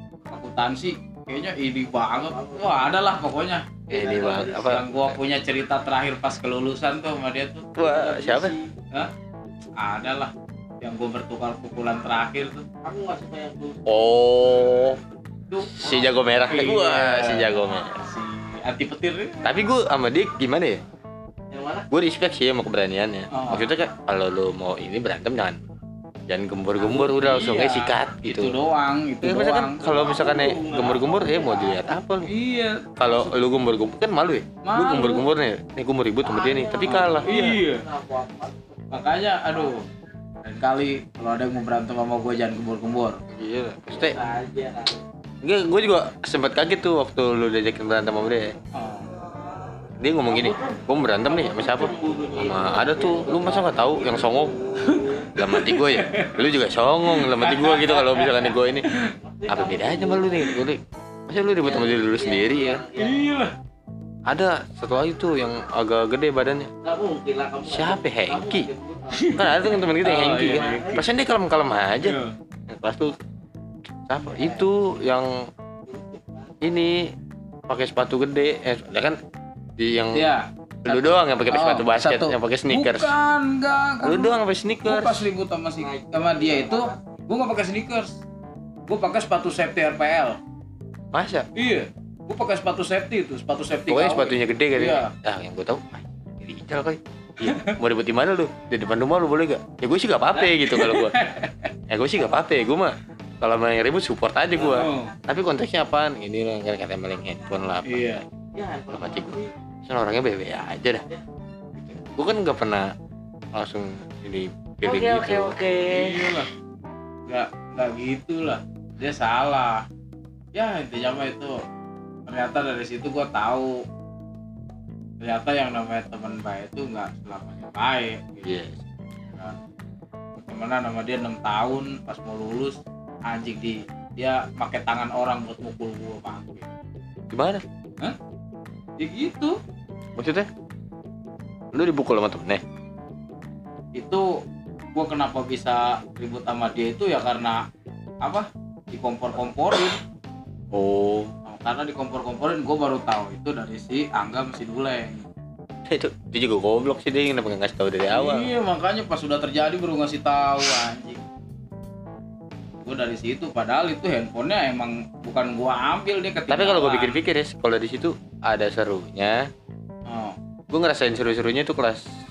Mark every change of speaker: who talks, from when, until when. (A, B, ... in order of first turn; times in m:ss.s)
0:00.3-0:03.6 A
0:02.1-0:02.9 B
0:03.9-0:05.2 C
0:03.9-0:04.8 B
0:04.6-0:07.7 A
0:07.8-0:08.6 C
0:07.8-0:08.7 B
0:09.8-0:12.7 A
0:12.8-0:14.9 B
0:13.9-0:15.0 C
0:15.5-0:16.2 B
0:15.8-0:18.0 C
0:16.4-0:19.6 A
0:19.4-0:20.8 C
0:21.5-0:21.9 B
0:21.9-0:25.6 C
0:23.3-0:23.7 A
0:26.3-0:28.6 C
0:26.9-0:30.2 A
0:29.2-0:32.3 C
0:29.8-0:32.0 B
0:32.3-0:33.3 A
0:33.0-0:37.6 C
0:34.6-0:35.3 A
0:36.2-0:39.7 B
0:36.8-0:37.8 A
0:38.9-0:39.8 A
0:40.4-0:43.2 A
0:43.3-0:44.2 C
0:43.9-0:45.0 B
0:45.4-0:48.5 C
0:48.8-0:49.1 A
0:50.0-0:54.5 C
0:50.3-0:55.3 B
0:54.8-0:56.4 A
0:55.4-0:58.9 C
0:57.1-0:59.1 A
0:59.2-1:00.6 B
0:59.5-1:02.8 C
1:01.6-1:03.2 B
1:03.0-1:03.5 A
1:04.3-1:06.7 C
1:06.8-1:11.0 B
1:07.7-1:08.7 C
1:09.1-1:11.0 A
1:09.4-1:13.2 C
1:12.0-1:12.3 A
1:14.1-1:15.5 C
1:14.2-1:14.7 B
1:15.9-1:16.5 B
1:16.6-1:17.1 C
1:17.7-1:19.2 C
1:19.8-1:20.3 C
1:20.1-1:28.2 A
1:20.8-1:23.1 C
1:24.0-1:25.2 C
1:25.8-1:27.0 B
1:28.9-1:30.4 A
1:31.1-1:31.5 C
1:31.6-1:35.1 A
1:33.9-1:41.2 C
1:37.4-1:37.8 A
1:40.7-1:41.7 A
1:41.9-1:48.2 C
1:44.6-1:44.8 B
1:44.6-1:45.2 A
1:47.8-1:48.2 A
1:48.5-1:49.5 B
1:48.9-1:51.0 C
1:51.8-1:52.9 C
1:53.5-1:56.4 C
1:54.8-1:55.6 B
1:55.9-1:56.5 A
1:57.3-1:59.8 A
2:00.6-2:01.6 A
2:02.3-2:03.8 A
2:05.2-2:08.6 A
2:08.4-2:08.8 C
2:09.3-2:09.6 A
2:10.4-2:16.7 A
2:17.3-2:17.6 C
2:19.0-2:19.5 A
2:20.2-2:20.5 C
2:21.7-2:22.6 C
2:24.0-2:24.3 A
2:24.9-2:27.6 A
2:28.2-2:30.0 A
2:30.7-2:31.3 C
2:31.4-2:35.3 A
2:35.9-2:38.5 C
2:38.1-2:41.2 A
2:42.8-2:47.2 A
2:46.5-2:49.5 C
2:50.1-2:50.4 A
2:50.7-2:52.0 C